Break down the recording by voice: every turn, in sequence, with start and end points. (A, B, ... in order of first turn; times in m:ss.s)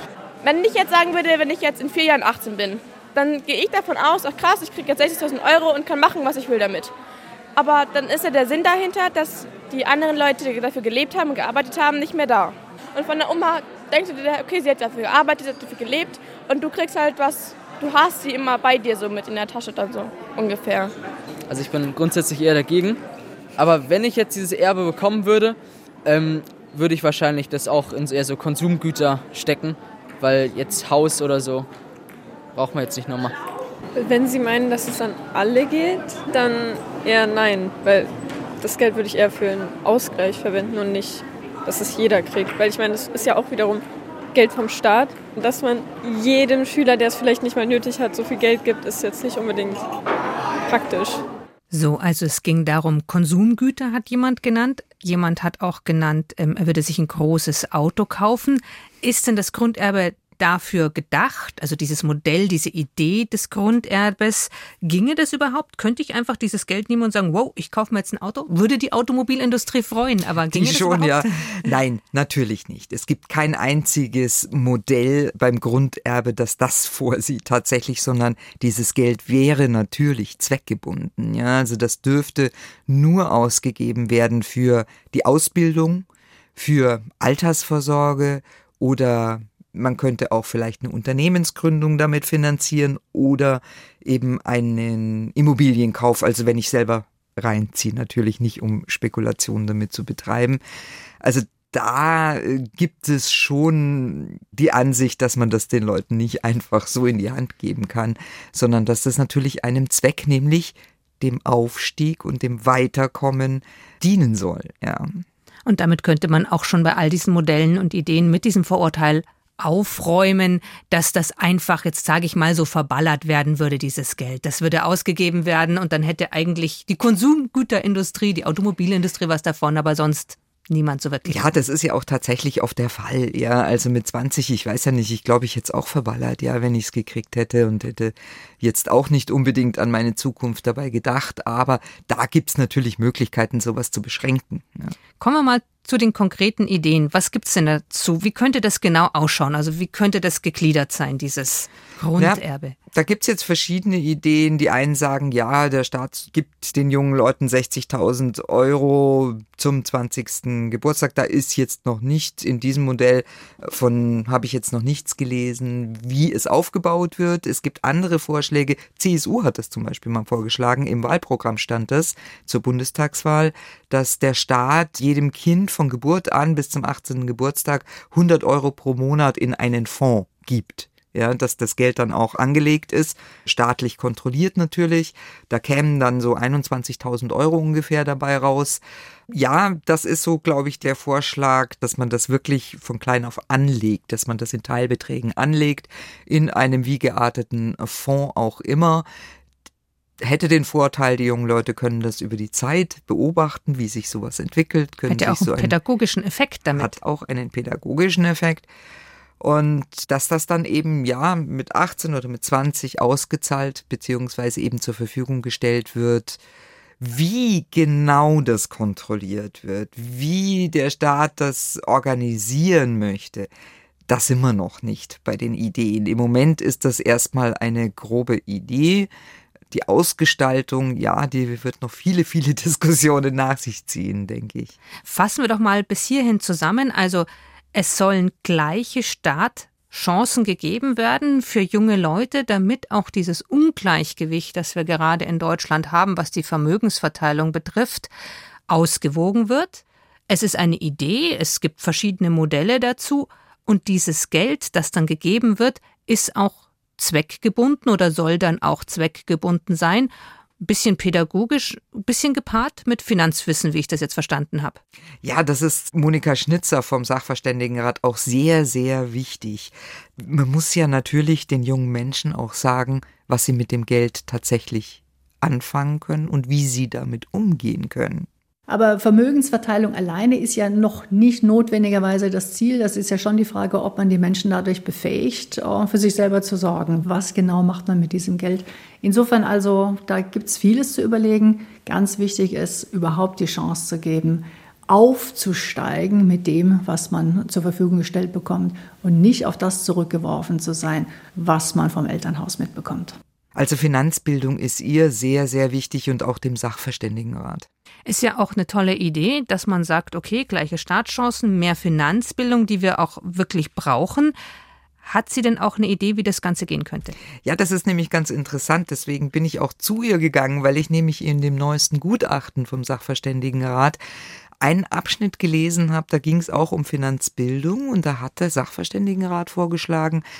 0:00.4-0:06.9 A
0:07.5-0:20.9 A
0:21.5-0:23.0 B
0:23.6-0:31.7 B
0:32.5-0:33.4 B
0:34.0-0:38.1 C
0:38.6-0:49.8 C
0:50.6-0:51.2 C
0:51.7-1:11.6 D
1:10.5-1:40.6 E
1:41.2-1:55.2 E
1:55.6-2:11.6 D
2:11.3-2:24.9 E
2:25.2-2:32.8 D
2:32.9-3:19.0 E
3:20.2-3:25.8 E
3:25.1-3:26.9 D
3:26.7-3:28.7 E
3:29.4-3:36.4 E
3:37.0-3:43.5 E
3:44.1-3:49.1 E
3:49.7-3:54.7 E
3:55.0-4:08.1 D
4:08.7-4:20.1 D
4:20.6-4:24.8 D
4:25.2-4:38.3 E
4:38.7-5:03.2 F
5:03.5-5:07.7 E
5:08.0-5:14.3 D
5:15.0-5:17.2 D
5:17.4-5:24.0 E
5:24.6-5:30.2 E